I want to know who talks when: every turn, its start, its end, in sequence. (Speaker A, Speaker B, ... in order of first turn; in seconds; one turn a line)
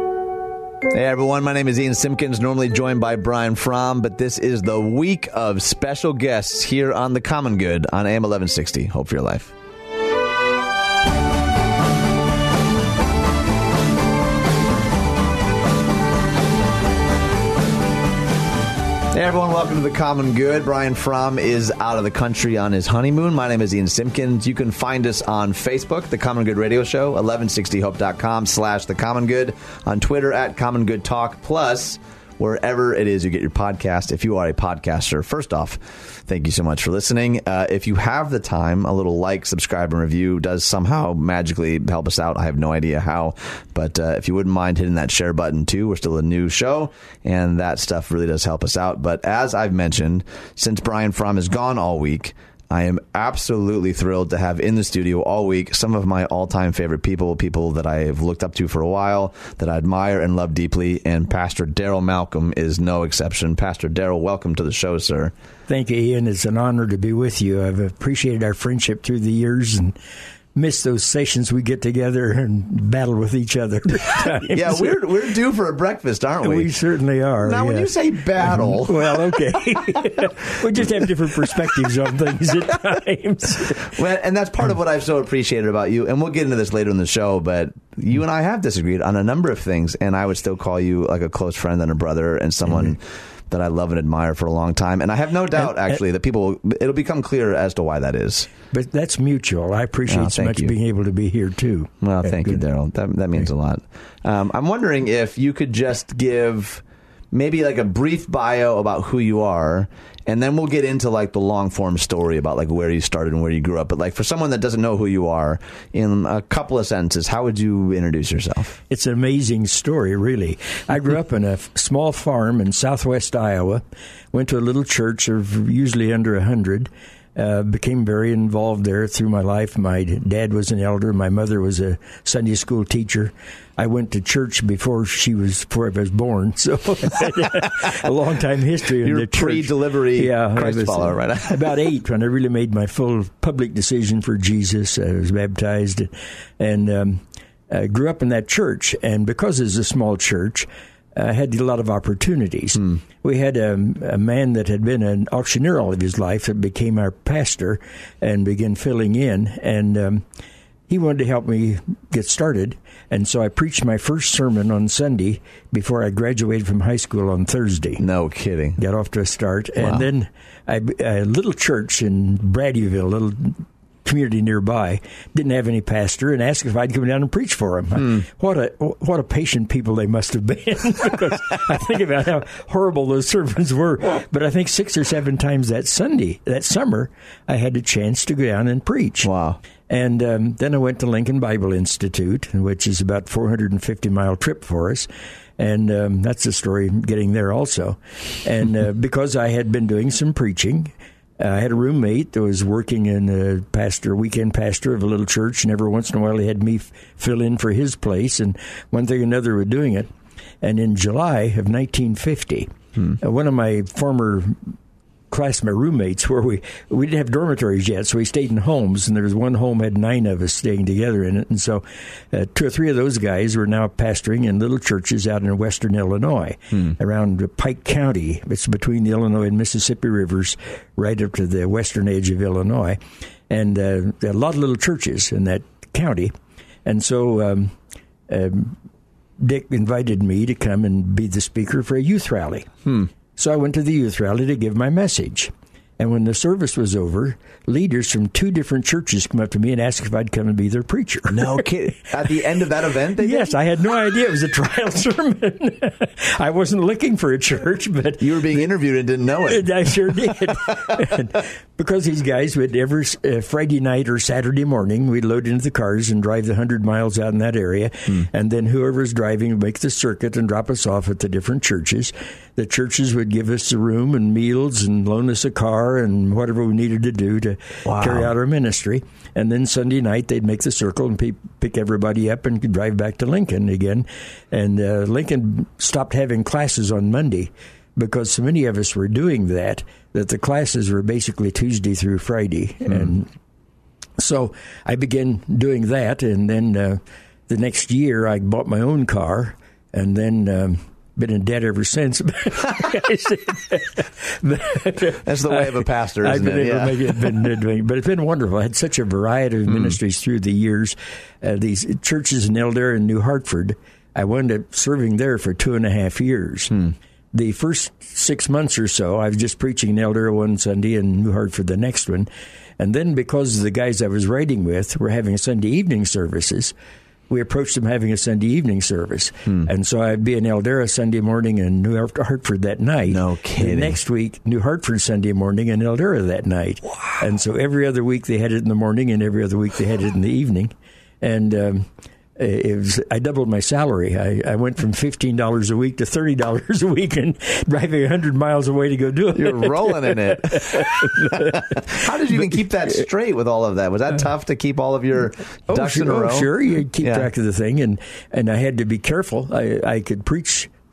Speaker A: 0.9-9.5
Speaker A: 19.1-65.3
Speaker B: 65.7-70.0
Speaker B: 70.5-75.0
Speaker A: 74.1-76.7
Speaker B: 76.4-83.9
Speaker A: 77.4-79.2
Speaker A: 83.8-98.5
Speaker B: 98.7-102.6
Speaker A: 100.1-100.7
Speaker A: 102.0-118.8
Speaker B: 118.9-160.2
Speaker A: 139.0-141.8
Speaker B: 160.9-168.0
Speaker A: 168.0-168.8
Speaker B: 168.8-189.3
Speaker A: 169.8-170.1
Speaker A: 189.2-189.6
Speaker B: 189.9-210.1
Speaker B: 210.6-214.7
Speaker B: 215.3-236.3
Speaker B: 236.8-237.8
Speaker B: 238.3-238.8
Speaker B: 239.4-242.7
Speaker B: 243.4-251.7
Speaker A: 251.3-253.5
Speaker B: 253.2-258.6
Speaker A: 258.2-260.3
Speaker B: 259.5-293.3
Speaker A: 277.9-278.3
Speaker B: 294.2-316.8
Speaker A: 305.2-307.3
Speaker B: 317.3-326.7
Speaker B: 327.3-352.6
Speaker A: 333.1-334.0
Speaker A: 349.3-356.5
Speaker B: 355.7-360.7
Speaker A: 357.0-357.3